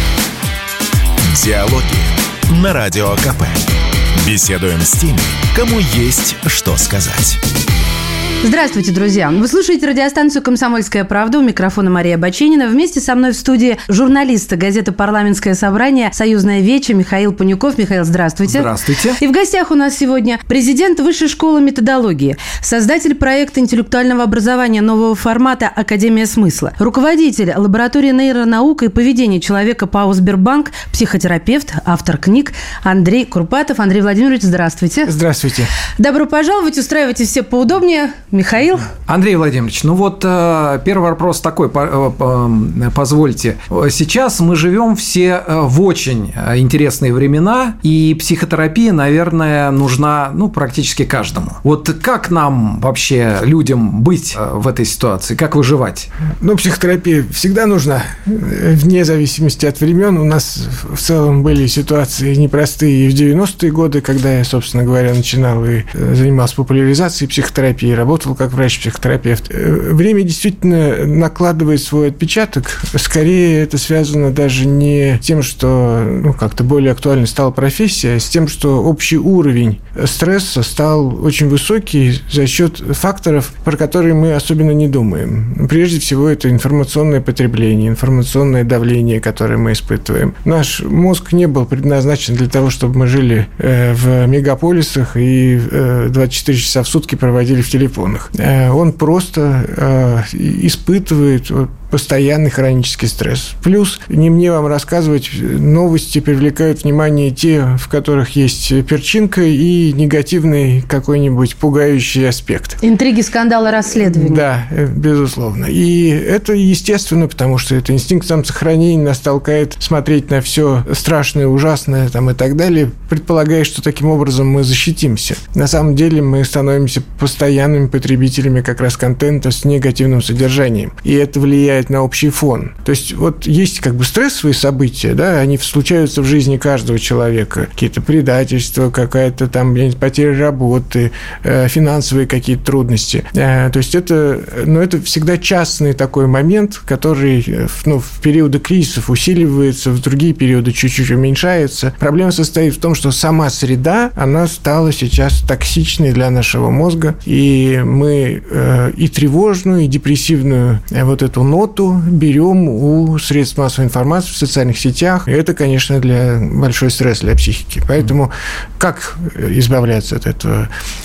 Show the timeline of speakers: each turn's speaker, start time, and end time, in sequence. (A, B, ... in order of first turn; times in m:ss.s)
0:01.2-0:07.4 A
0:08.4-0:35.1 B
0:18.4-0:19.2 C
0:35.0-0:35.7 D
0:36.0-0:38.9 B
0:39.1-0:56.1 C
0:56.4-1:52.8 D
1:52.8-1:54.4 B
1:53.9-2:50.7 D